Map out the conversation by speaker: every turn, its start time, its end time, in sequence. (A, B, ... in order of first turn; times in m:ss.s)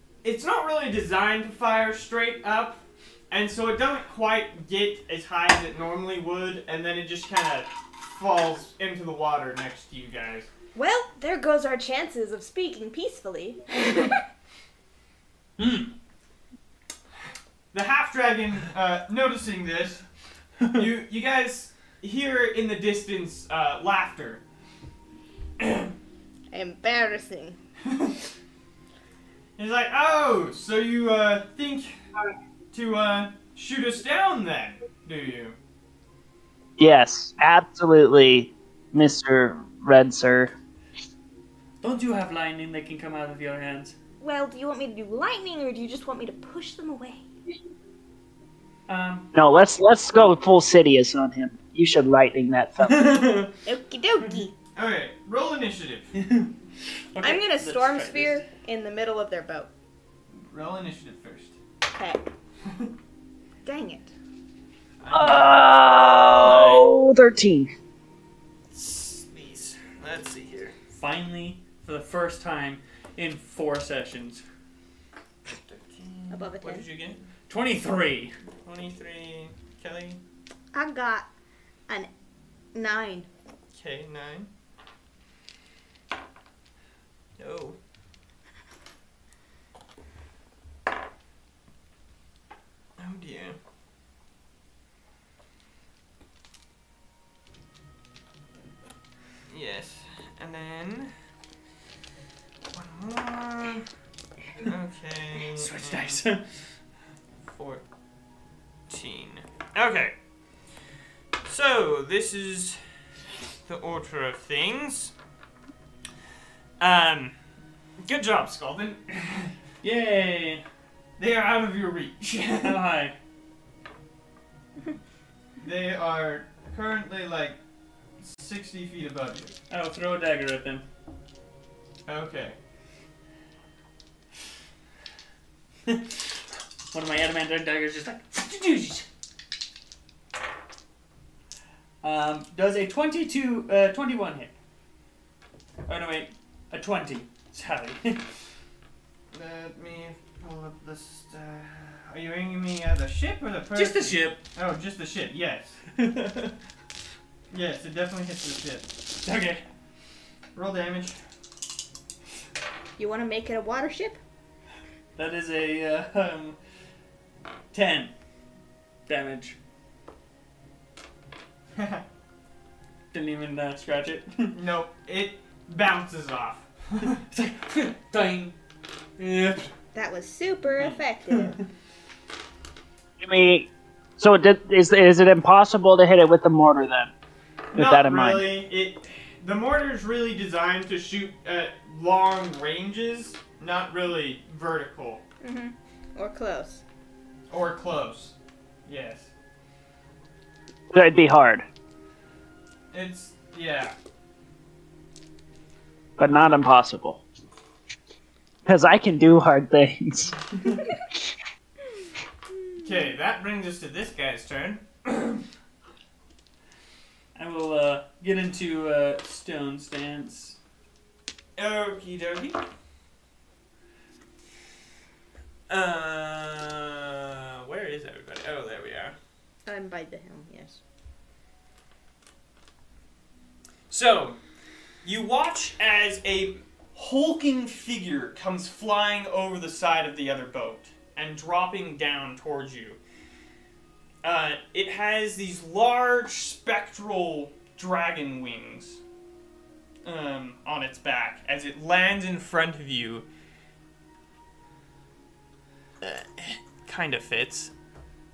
0:00.2-0:10.5 A
0:10.8-0:14.2 B
0:15.6-0:15.9 C
0:17.7-0:20.0 A
0:20.7-0:24.4 A
0:25.6-0:25.9 A
0:26.5-0:27.6 B
0:27.8-0:28.2 A
0:29.6-0:31.9 A
0:32.7-0:35.5 A
0:36.8-0:40.5 D
0:41.8-0:44.0 C
0:44.2-0:47.2 B
0:48.9-0:49.3 C
0:49.3-0:53.2 D
0:52.8-0:53.5 C
0:53.6-0:54.5 B
0:54.8-0:56.1 A
0:56.1-0:56.5 C
0:57.1-0:58.4 C
0:57.2-0:59.7 B
1:00.4-1:01.6 A
1:01.9-1:02.2 B
1:02.6-1:02.9 A
1:03.6-1:04.1 B
1:05.0-1:05.7 A
1:05.1-1:07.7 D
1:06.4-1:06.8 A
1:08.7-1:10.7 A
1:10.9-1:14.4 C
1:15.5-1:17.2 A
1:16.3-1:16.8 B
1:17.5-1:18.3 C
1:18.6-1:20.2 A
1:20.7-1:21.3 B
1:22.8-1:23.3 B
1:23.7-1:24.5 A
1:27.4-1:27.8 A
1:33.0-1:33.6 A
1:39.5-1:41.1 A
1:42.7-1:43.8 A
1:44.6-1:46.2 A
1:45.5-1:46.6 C
1:47.5-1:47.8 A
1:48.9-1:50.1 A
1:51.4-1:52.8 A
1:53.6-1:55.1 A
1:56.8-1:57.3 A
1:58.0-1:59.5 A
1:59.8-2:00.6 C
2:01.2-2:02.8 A
2:02.6-2:03.2 C
2:05.6-2:07.6 A
2:08.2-2:09.5 A
2:09.7-2:10.8 C
2:12.0-2:12.6 A
2:15.9-2:19.0 C
2:22.0-2:24.5 C
2:25.8-2:28.2 C
2:29.3-2:35.9 A
2:33.8-2:34.4 C
2:36.0-2:36.5 C
2:37.5-2:38.9 A
2:39.2-2:39.6 C
2:40.5-2:41.2 A
2:43.0-2:44.2 B
2:45.2-2:46.6 C
2:47.7-2:48.1 C
2:49.1-2:49.6 C
2:51.8-2:52.0 A
2:53.1-2:54.6 C
2:54.5-2:57.2 A
2:57.3-2:58.6 C
2:59.2-2:59.7 C
2:59.9-3:01.6 B
3:03.2-3:07.1 D
3:07.7-3:08.5 D
3:07.7-3:15.2 A
3:15.4-3:16.8 B
3:17.5-3:18.3 A
3:18.8-3:19.3 A
3:20.9-3:21.6 D
3:22.9-3:23.9 A
3:26.2-3:27.2 D
3:28.6-3:30.4 D
3:32.8-3:35.4 A
3:37.3-3:40.6 C
3:41.6-3:42.6 A
3:45.7-3:49.1 A
3:49.6-3:50.8 B
3:53.9-3:54.4 A
3:55.0-4:03.0 A
4:04.2-4:09.0 A
4:10.0-4:13.2 A
4:16.0-4:17.7 A